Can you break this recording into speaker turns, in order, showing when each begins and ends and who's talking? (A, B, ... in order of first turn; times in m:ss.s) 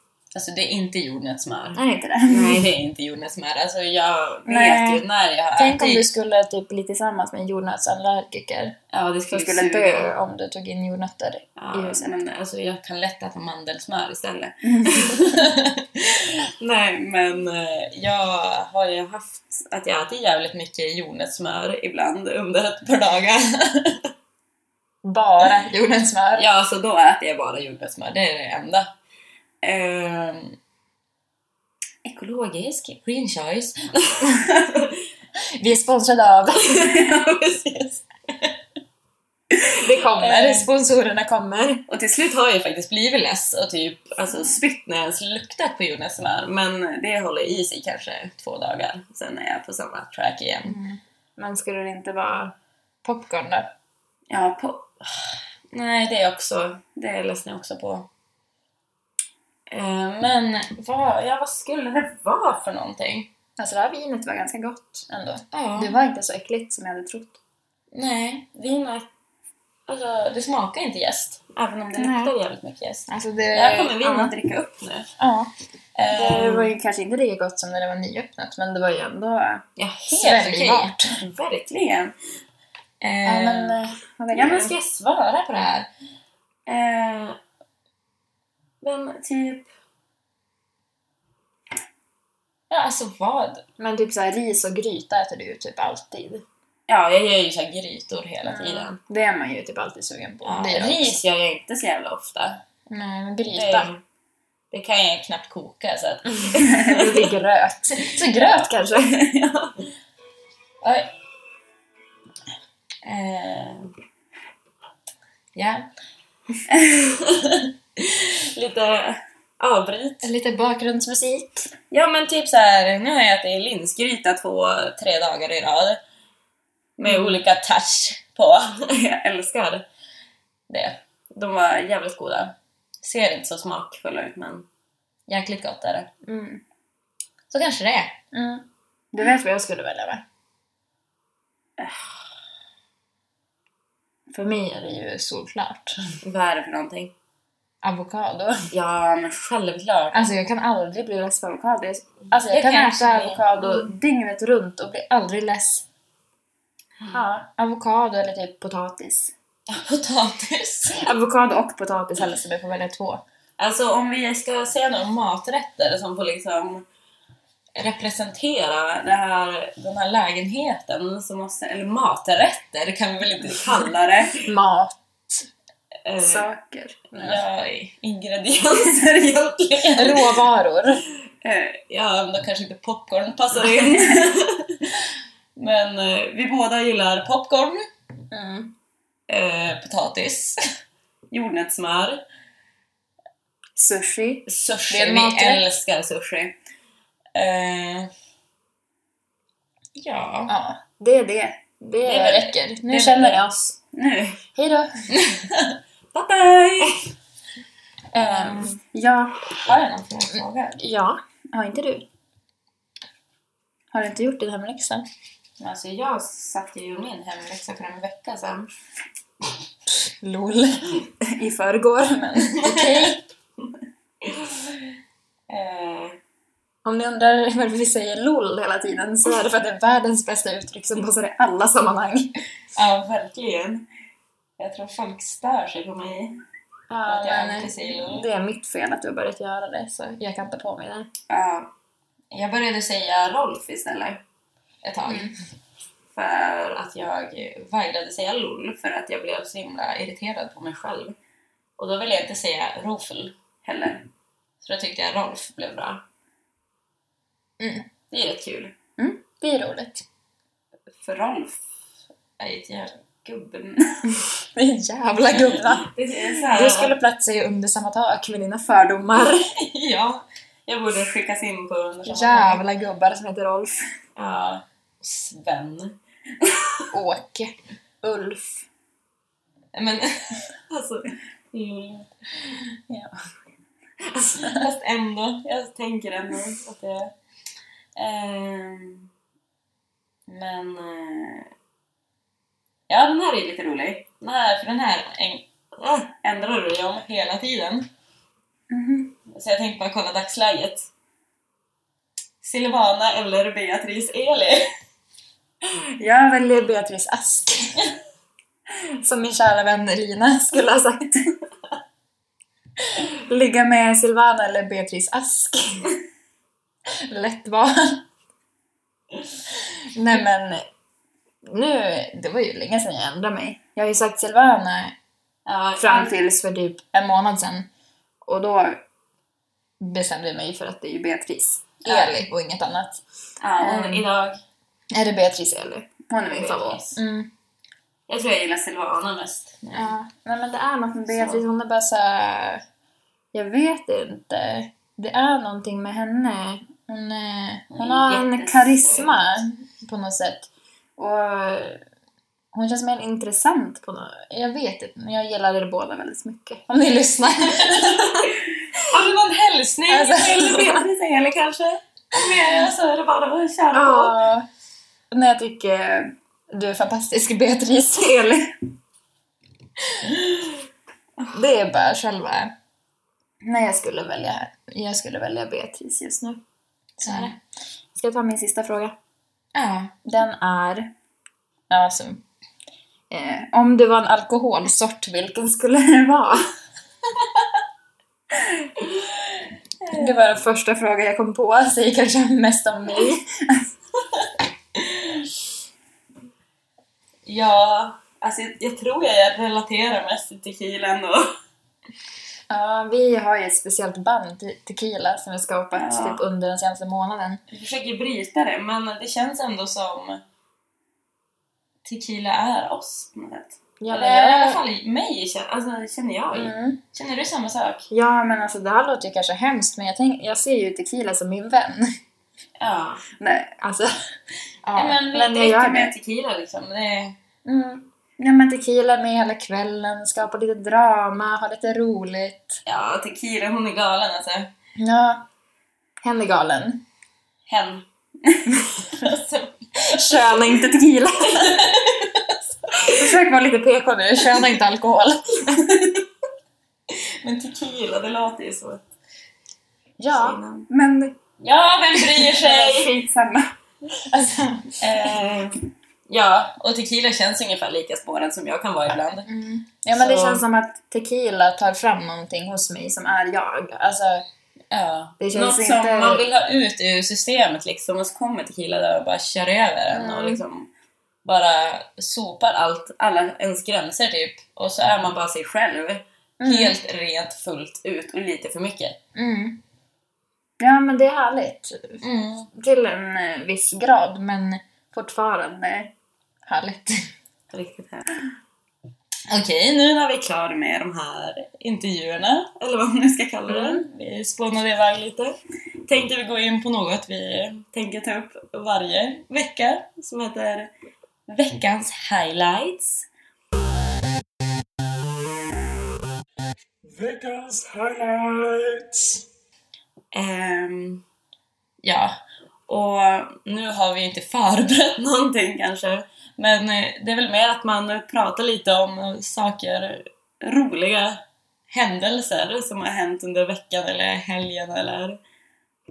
0:00.3-0:06.1 A
0:01.7-0:02.7 B
0:04.5-0:05.0 B
0:05.6-0:08.8 B
0:08.9-0:10.1 A
0:09.3-0:12.1 B
0:11.6-0:24.1 A
0:14.8-0:15.1 B
0:25.0-0:26.5 B
0:26.4-0:28.9 A
0:29.6-0:30.6 A
0:32.0-0:35.0 A
0:35.6-0:36.9 B
0:36.6-0:38.6 A
0:39.5-0:40.7 A
0:39.8-0:41.8 B
0:41.9-0:50.8 A
0:50.6-0:53.7 B
0:54.3-0:58.1 A
0:59.7-1:03.3 A
1:03.6-1:07.4 B
1:05.5-1:05.9 A
1:07.9-1:09.1 A
1:09.9-1:15.1 A
1:12.0-1:12.3 B
1:13.1-1:14.3 B
1:15.2-1:15.5 B
1:16.0-1:16.7 A
1:16.1-1:21.2 B
1:19.8-1:22.1 A
1:23.0-1:23.8 A
1:23.2-1:24.7 B
1:24.3-1:25.9 A
1:26.7-1:27.4 A
1:28.8-1:29.7 A
1:32.7-1:33.6 A
1:33.8-1:36.4 B
1:36.9-1:39.0 A
1:38.4-1:41.2 B
1:40.4-1:42.6 A
1:42.9-1:43.9 B
1:43.5-1:44.0 A
1:44.7-1:47.3 A
1:46.6-1:49.2 B
1:48.2-1:49.9 A
1:50.8-1:51.1 A
1:53.0-1:53.9 A
1:55.6-1:55.8 A
1:56.7-2:00.3 A
2:00.2-2:01.7 B
2:01.9-2:06.0 A
2:07.0-2:09.8 A
2:07.0-2:07.4 B
2:10.7-2:14.7 A
2:15.3-2:16.1 A
2:16.2-2:16.6 B
2:17.5-2:18.1 A
2:18.3-2:20.2 B
2:24.3-2:26.0 B
2:26.2-2:27.1 A
2:27.8-2:28.7 B
2:28.7-2:30.3 A
2:30.1-2:35.8 B
2:32.5-2:33.9 A
2:37.1-2:39.3 B
2:39.7-2:41.0 A
2:40.9-2:43.2 B
2:43.6-2:46.8 A
2:47.8-2:54.4 A
2:54.4-2:55.5 B
2:56.0-2:56.5 A
2:56.2-2:57.4 B
2:57.1-3:00.4 A
3:00.0-3:01.0 B
3:01.4-3:07.8 A
3:08.3-3:08.7 B
3:09.3-3:10.6 A
3:11.3-3:12.2 A
3:13.8-3:15.6 B
3:14.5-3:16.6 A
3:17.3-3:18.1 A
3:20.0-3:20.5 A
3:20.5-3:23.8 B
3:22.0-3:24.4 A
3:24.5-3:24.9 B
3:25.1-3:27.0 A
3:28.1-3:29.4 B
3:28.2-3:28.7 A
3:29.6-3:30.8 A
3:30.8-3:32.1 B
3:33.9-3:35.0 B
3:35.6-3:38.7 A
3:39.9-3:43.2 B
3:42.5-3:43.2 A
3:44.2-3:44.8 A
3:45.5-3:46.2 A
3:46.8-3:52.3 B
3:52.7-3:53.9 A
3:54.6-3:56.4 A
3:56.9-4:01.1 B
3:57.0-3:58.3 A
4:01.3-4:01.7 A
4:02.3-4:04.2 A
4:04.8-4:05.3 A
4:05.1-4:05.3 B
4:06.1-4:11.2 A
4:11.8-4:14.1 A
4:14.6-4:16.0 A
4:17.6-4:17.9 B
4:18.1-4:18.7 A
4:19.0-4:20.0 B
4:20.9-4:21.6 A
4:22.4-4:24.0 A
4:24.1-4:29.5 B
4:25.8-4:27.0 A
4:29.2-4:32.6 A
4:32.0-4:33.8 B
4:34.2-4:36.8 A
4:36.9-4:38.6 B
4:39.7-4:42.1 A
4:42.9-4:43.1 B
4:44.1-4:44.6 B
4:44.4-4:47.1 A
4:48.0-4:49.1 A
4:50.3-4:51.5 A
4:52.9-4:57.9 A
4:58.7-4:59.2 B
4:59.3-5:00.9 A
5:02.4-5:04.7 A
5:06.0-5:07.8 B
5:09.0-5:11.2 B
5:13.0-5:15.9 B
5:17.0-5:18.0 B
5:19.9-5:20.6 B
5:21.4-5:25.0 B
5:25.4-5:26.1 A
5:25.8-5:27.7 B
5:28.2-5:28.8 B
5:29.8-5:33.0 B
5:31.8-5:32.2 A
5:33.4-5:34.4 A
5:33.6-5:34.0 B
5:34.9-5:37.3 B
5:36.2-5:37.0 A
5:38.1-5:39.9 A
5:39.7-5:42.6 B
5:41.1-5:41.4 A
5:43.3-5:51.8 B
5:47.7-5:49.2 A
5:52.5-5:58.3 B
5:57.6-5:58.3 A
5:58.9-6:04.2 A
5:59.9-6:00.8 B
6:03.7-6:04.5 B
6:05.1-6:08.5 B
6:11.3-6:12.5 B
6:13.4-6:16.4 B
6:17.0-6:17.4 B
6:17.0-6:17.3 A
6:17.9-6:18.9 B
6:19.5-6:19.9 A
6:20.0-6:20.9 B
6:21.7-6:22.2 B
6:23.1-6:26.4 B
6:28.8-6:30.3 A
6:29.9-6:33.7 B
6:34.8-6:35.3 A
6:37.2-6:41.3 A
6:42.5-6:47.4 B
6:45.7-6:46.2 A
6:47.5-6:50.2 A
6:51.8-6:57.9 A
6:53.8-6:54.6 B
6:56.3-6:56.8 B
6:57.9-7:02.0 B
7:02.6-7:03.0 A
7:03.2-7:03.9 B
7:04.6-7:05.9 B
7:04.7-7:07.2 A
7:07.4-7:12.6 B
7:12.6-7:14.5 A
7:14.8-7:15.2 B
7:16.0-7:16.8 B
7:17.5-7:20.5 A
7:19.8-7:21.7 B
7:21.3-7:23.1 A
7:22.8-7:25.5 B
7:25.5-7:26.0 A
7:26.9-7:28.8 A
7:30.0-7:31.2 B
7:30.1-7:30.7 A
7:31.4-7:33.0 A
7:32.0-7:35.1 B
7:34.8-7:39.3 A
7:39.2-7:44.2 B
7:39.9-7:40.4 A
7:44.7-7:50.7 A
7:45.2-7:46.2 B
7:49.9-7:50.4 B
7:51.2-7:59.0 A
7:56.4-7:56.8 B
7:59.1-7:59.6 B
8:00.6-8:05.9 B
8:02.0-8:02.5 A
8:06.4-8:07.0 B
8:07.5-8:08.1 A
8:09.3-8:20.7 A
8:13.5-8:13.8 B
8:21.3-8:23.1 A
8:26.8-8:29.2 C
8:30.1-8:31.0 A
8:31.8-8:45.2 A